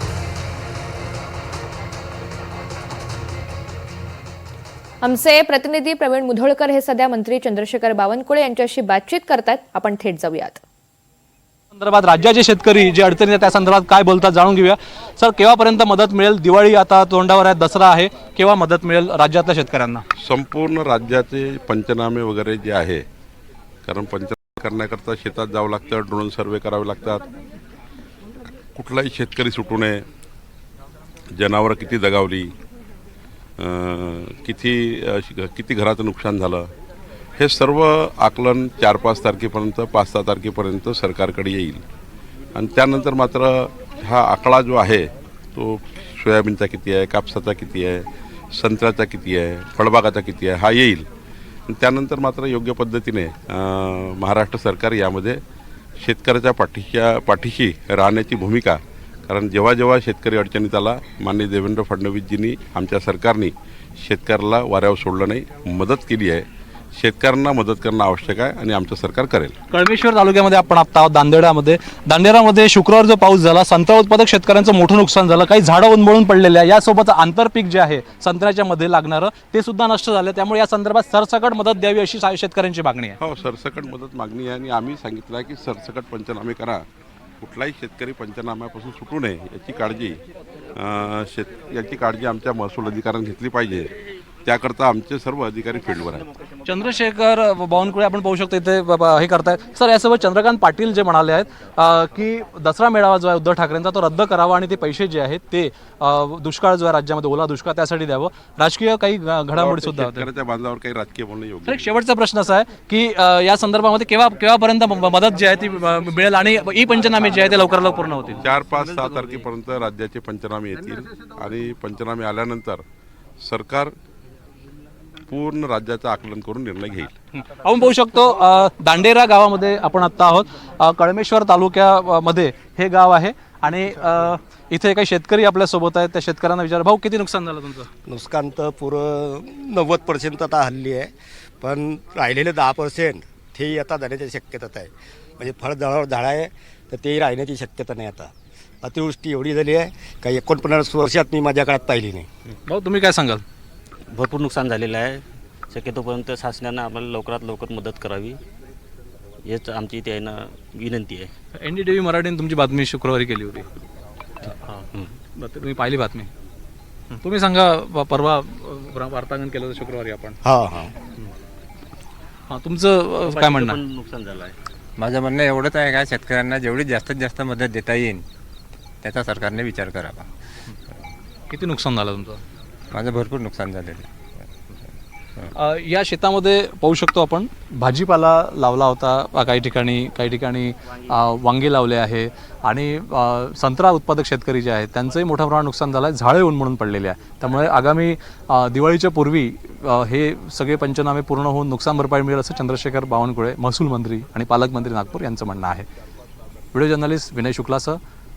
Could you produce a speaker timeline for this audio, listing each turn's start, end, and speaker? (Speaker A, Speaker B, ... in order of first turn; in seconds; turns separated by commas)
Speaker A: 5.0-10.6, Speaker B: 11.7-20.0, Speaker C: 20.2-23.1, Speaker C: 23.9-27.2, Speaker C: 28.8-30.0, Speaker C: 31.3-32.5, Speaker C: 33.6-36.7, Speaker C: 37.4-41.8, Speaker C: 42.5-51.1, Speaker C: 51.7-55.4, Speaker C: 56.0-69.5, Speaker B: 69.7-83.2, Speaker C: 83.2-86.8, Speaker C: 87.4-90.2, Speaker C: 90.8-93.9, Speaker C: 94.5-96.3, Speaker B: 96.7-110.3, Speaker C: 109.5-111.9, Speaker B: 111.7-118.5, Speaker C: 118.4-122.8, Speaker C: 123.4-123.9, Speaker C: 125.3-127.1, Speaker B: 127.5-137.9, Speaker D: 138.1-148.3, Speaker D: 148.8-152.3, Speaker B: 152.7-153.4, Speaker E: 154.1-158.4, Speaker E: 159.5-161.3, Speaker B: 161.6-163.7, Speaker B: 164.7-166.3, Speaker B: 167.1-170.4, Speaker D: 170.4-170.9, Speaker B: 172.5-173.8, Speaker E: 173.2-174.6, Speaker F: 175.0-178.2, Speaker F: 179.0-180.3, Speaker B: 181.5-182.4, Speaker F: 182.9-184.1, Speaker B: 185.5-205.9, Speaker B: 206.7-208.0